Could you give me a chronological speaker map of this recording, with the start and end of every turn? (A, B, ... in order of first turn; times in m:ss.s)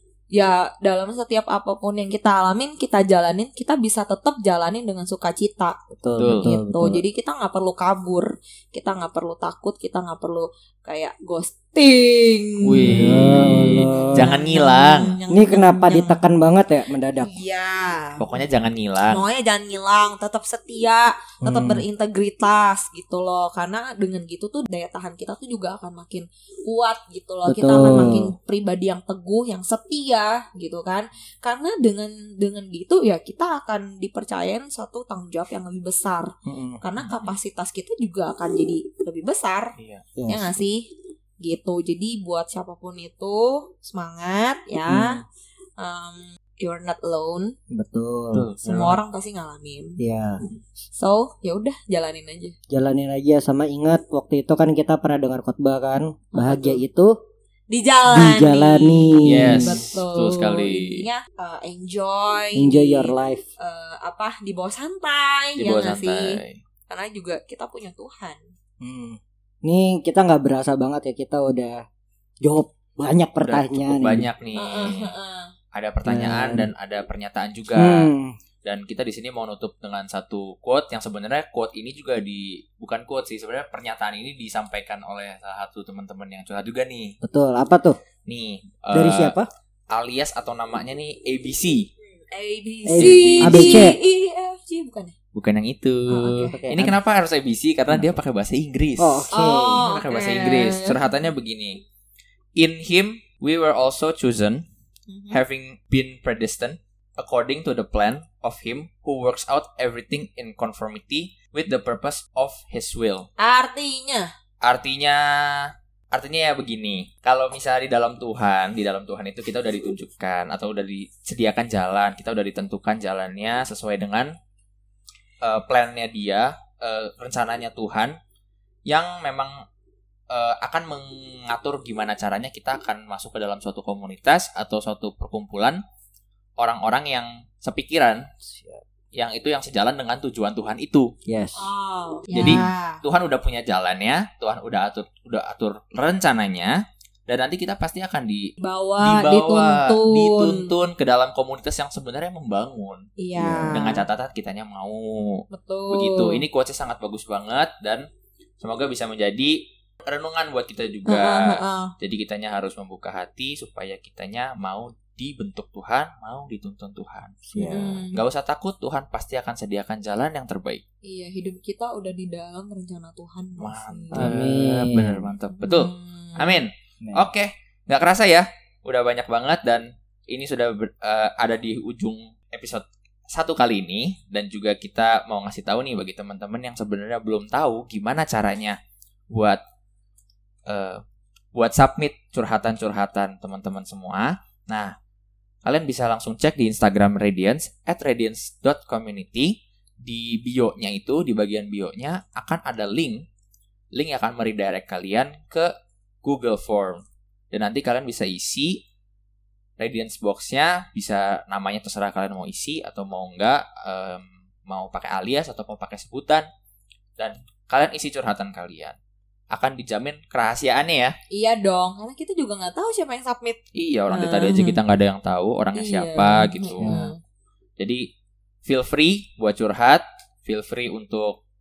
0:00.3-0:05.8 A
0:05.9-0:07.0 B
0:06.2-0:06.5 C
0:06.4-0:16.2 A
0:12.6-0:15.2 C
0:12.8-0:14.3 B
0:15.3-0:17.3 B
0:17.2-0:18.2 A
0:18.2-0:19.2 C
0:19.1-0:39.8 A
0:21.4-0:21.8 B
0:27.5-0:28.3 B
0:36.5-0:36.8 B
0:37.0-0:37.4 C
0:39.8-0:40.1 C
0:40.2-0:40.5 B
0:40.3-0:40.9 A
0:41.4-0:45.2 A
0:44.9-0:45.2 B
0:45.8-0:47.6 A
0:47.7-0:48.5 B
0:48.3-0:49.0 C
0:48.6-0:50.0 A
0:50.0-0:50.4 B
0:50.9-0:52.6 A
0:52.7-0:57.1 B
0:56.4-0:56.8 A
0:57.7-1:08.4 A
0:58.1-0:59.9 B
0:59.2-1:01.0 C
1:02.6-1:03.4 B
1:05.6-1:06.6 C
1:08.8-1:11.8 B
1:12.4-1:14.3 B
1:13.4-1:15.1 C
1:14.6-1:15.5 A
1:15.7-1:18.1 C
1:16.1-1:16.7 B
1:17.8-1:18.4 B
1:18.6-1:27.2 C
1:27.2-1:28.0 B
1:28.3-1:29.4 C
1:28.9-1:29.5 B
1:29.9-1:31.9 C
1:32.2-1:35.1 A
1:32.9-1:34.0 B
1:33.0-1:33.9 C
1:35.4-1:39.3 C
1:36.1-1:36.6 A
1:36.5-1:37.0 B
1:39.0-1:39.8 B
1:39.3-1:41.0 A
1:39.8-1:41.8 C
1:42.6-1:44.6 C
1:45.1-1:45.4 A
1:45.3-1:53.3 C
1:53.4-1:54.3 A
1:54.6-2:04.3 C
2:05.4-2:08.1 C
2:08.9-2:09.6 C
2:10.3-2:15.8 C
2:16.6-2:18.3 C
2:18.4-2:18.8 B
2:19.1-2:21.1 C
2:21.3-2:21.6 B
2:21.6-2:23.0 A
2:22.3-2:26.8 C
2:22.4-2:22.7 B
2:27.3-2:33.1 C
2:28.6-2:30.7 A
2:33.2-2:34.1 A
2:33.4-2:33.8 B
2:33.7-2:38.1 C
2:35.5-2:36.4 A
2:38.6-2:47.4 C
2:41.1-2:41.9 A
2:47.4-2:48.0 B
2:47.6-2:48.2 A
2:48.1-2:50.8 C
2:51.0-2:54.3 A
2:53.6-3:08.8 C
2:54.1-2:55.3 B
2:55.6-2:56.6 A
2:57.0-2:57.3 B
3:09.3-3:09.6 C
3:10.7-3:11.0 C
3:11.5-3:15.0 C
3:15.6-3:23.2 C
3:23.9-3:25.7 C
3:26.2-3:28.8 C
3:29.8-3:36.5 C
3:37.2-3:39.0 C
3:39.5-3:41.2 C
3:41.3-3:43.6 A
3:43.8-3:47.0 C
3:44.1-3:44.8 A
3:45.8-3:47.2 A
3:46.8-3:47.1 B
3:47.8-3:48.0 C
3:48.6-3:51.4 C